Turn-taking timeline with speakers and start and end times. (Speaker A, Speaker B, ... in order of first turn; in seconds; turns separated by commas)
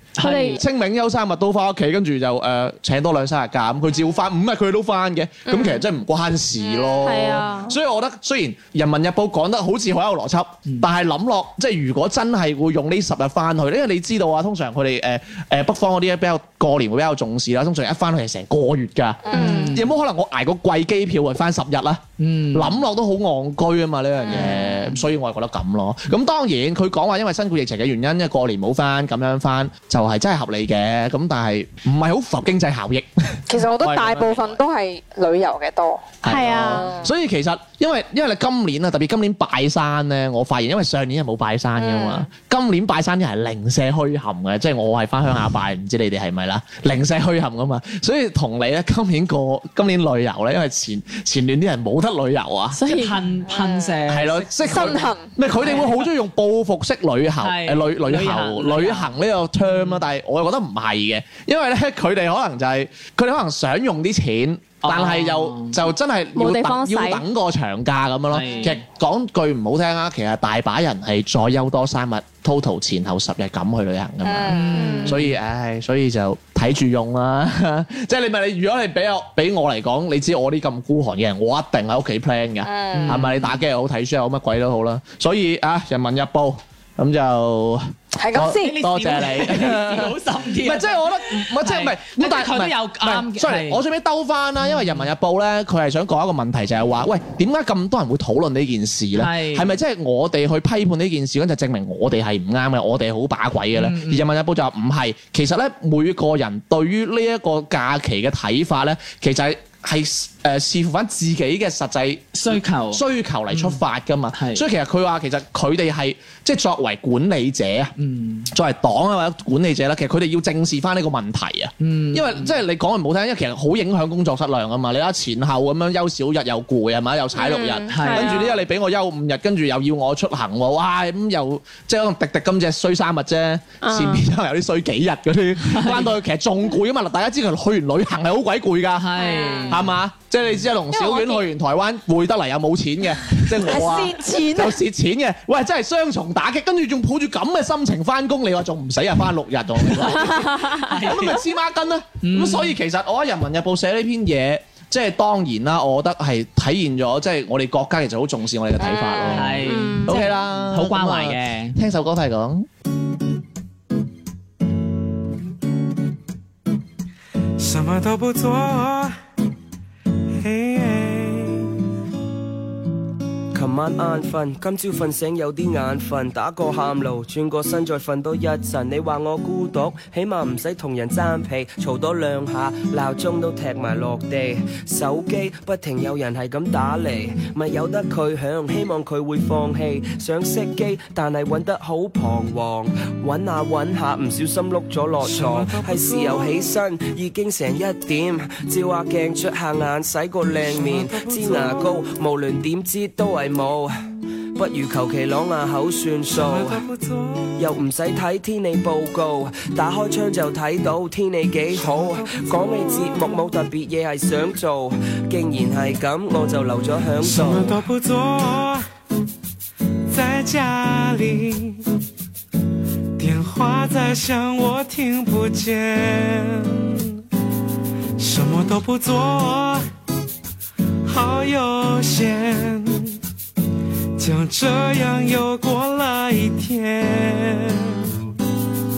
Speaker A: 0.2-0.6, Speaker B: 0.2-0.6, Speaker C: 0.4-34.6, Speaker B: 5.5-5.8, Speaker D: 6.6-7.4, Speaker B: 7.0-7.8, Speaker D: 19.2-19.7, Speaker A: 19.3-19.9, Speaker B: 19.3-19.7, Speaker A: 22.2-22.8, Speaker D: 24.2-24.6, Speaker A: 24.3-25.0, Speaker D: 33.5-36.1, Speaker C: 36.2-52.8, Speaker B: 36.2-36.9, Speaker D: 36.6-37.1, Speaker D: 41.8-42.3, Speaker B: 52.7-53.2, Speaker A: 52.9-55.0, Speaker D: 53.5-54.0, Speaker C: 54.1-117.9, Speaker D: 54.6-55.3, Speaker A: 55.6-56.1, Speaker A: 57.4-59.1, Speaker A: 59.6-60.0, Speaker A: 64.8-65.8, Speaker B: 66.3-67.2, Speaker A: 68.3-68.8, Speaker D: 74.2-75.0, Speaker A: 74.5-75.3, Speaker B: 74.8-75.2, Speaker D: 82.6-83.2, Speaker A: 82.9-83.6, Speaker D: 88.1-88.8, Speaker A: 88.5-93.8, Speaker A: 94.6-95.1, Speaker A: 99.2-99.8, Speaker A: 103.7-104.2, Speaker A: 112.3-113.8, Speaker A: 114.3-114.6, Speaker A: 118.0-118.5, Speaker C: 118.5-139.1, Speaker A: 121.8-122.5, Speaker B: 127.4-128.5, Speaker A: 127.9-128.5, Speaker B: 133.8-134.2, Speaker A: 135.6-136.2, Speaker A: 139.0-139.9, Speaker D: 139.2-139.8, Speaker C: 139.7-162.7, Speaker D: 140.9-141.4, Speaker D: 144.0-144.7, Speaker A: 150.1-151.4, Speaker A: 152.2-152.8, Speaker D: 158.8-159.6, Speaker A: 159.3-161.8, Speaker B: 159.7-160.1, Speaker E: 167.6-169.2, Speaker E: 170.3-171.7, Speaker F: 173.5-204.0, Speaker E: 195.2-196.6, Speaker E: 200.6-202.0, Speaker F: 204.5-206.8, Speaker E: 206.3-207.7, Speaker F: 207.6-217.8, Speaker E: 211.8-213.4, Speaker E: 217.2-218.8, Speaker E: 220.1-221.8, Speaker E: 223.2-227.1, Speaker E: 228.2-229.8, Speaker E: 231.1-233.2, Speaker E: 234.2-238.1